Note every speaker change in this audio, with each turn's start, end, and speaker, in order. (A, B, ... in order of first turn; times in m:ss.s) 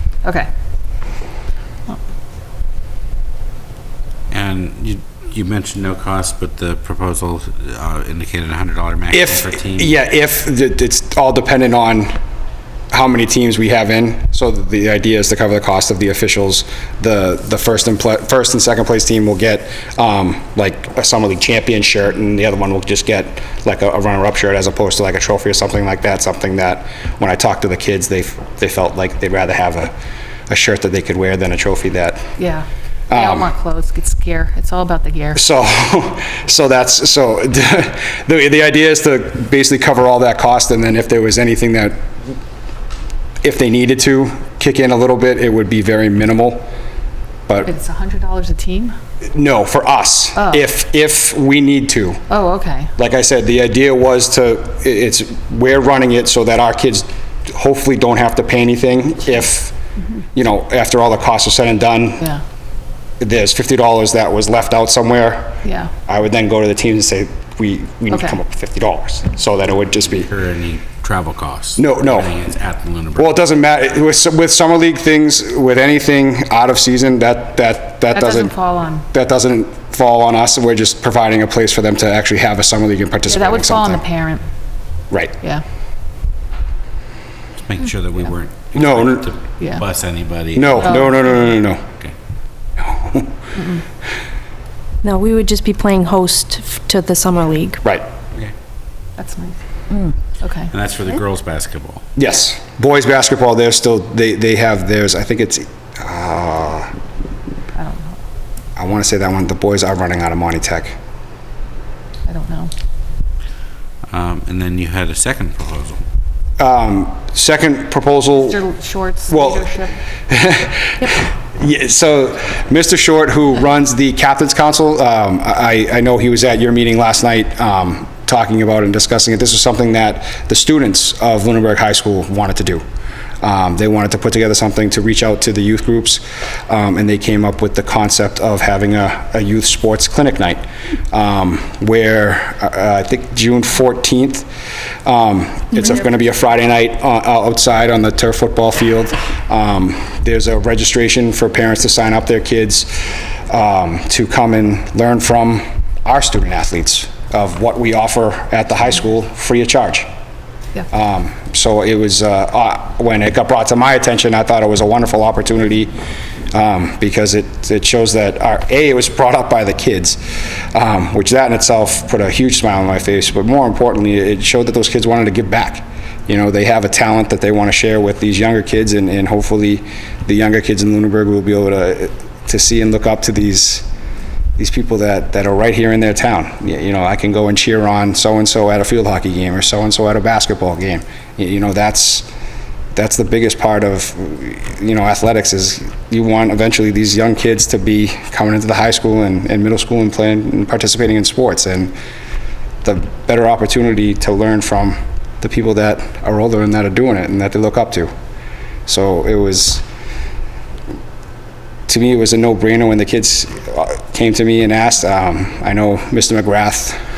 0:04.3-0:09.9 A
0:09.1-0:12.2 B
0:12.9-0:29.9 B
0:30.5-0:32.3 B
0:32.4-0:35.4 C
0:33.1-0:33.5 B
0:35.4-0:42.0 B
0:43.4-0:46.7 B
0:47.7-0:48.9 C
0:49.3-0:52.2 B
0:50.4-0:50.7 C
0:52.3-0:52.9 C
0:53.0-0:59.7 B
1:00.4-1:02.2 B
1:03.2-1:10.3 B
1:05.6-1:05.9 C
1:08.1-1:08.4 C
1:10.0-1:13.3 A
1:11.8-1:12.3 B
1:13.2-1:18.5 B
1:18.1-1:19.1 C
1:19.1-1:24.0 B
1:23.3-1:24.4 C
1:27.6-1:31.2 A
1:28.7-1:29.3 B
1:30.6-1:31.8 B
1:30.8-1:31.2 C
1:32.8-1:33.3 B
1:33.5-1:33.8 C
1:35.0-1:37.8 D
1:39.2-1:39.6 C
1:40.4-1:40.7 C
1:40.7-1:42.0 A
1:42.2-1:46.9 B
1:47.8-1:48.2 C
1:48.8-1:51.0 B
1:52.3-1:52.7 C
1:54.1-1:56.0 A
1:56.6-1:58.6 B
1:58.4-2:00.0 C
1:59.3-2:12.8 B
2:13.4-2:24.5 B
2:25.0-2:40.1 B
2:40.9-2:45.9 B
2:46.5-2:50.2 B
2:50.7-3:03.9 B
3:04.6-3:12.3 B
3:13.0-3:21.9 B
3:22.8-3:28.1 B
3:28.9-3:29.8 B
3:31.9-3:37.0 B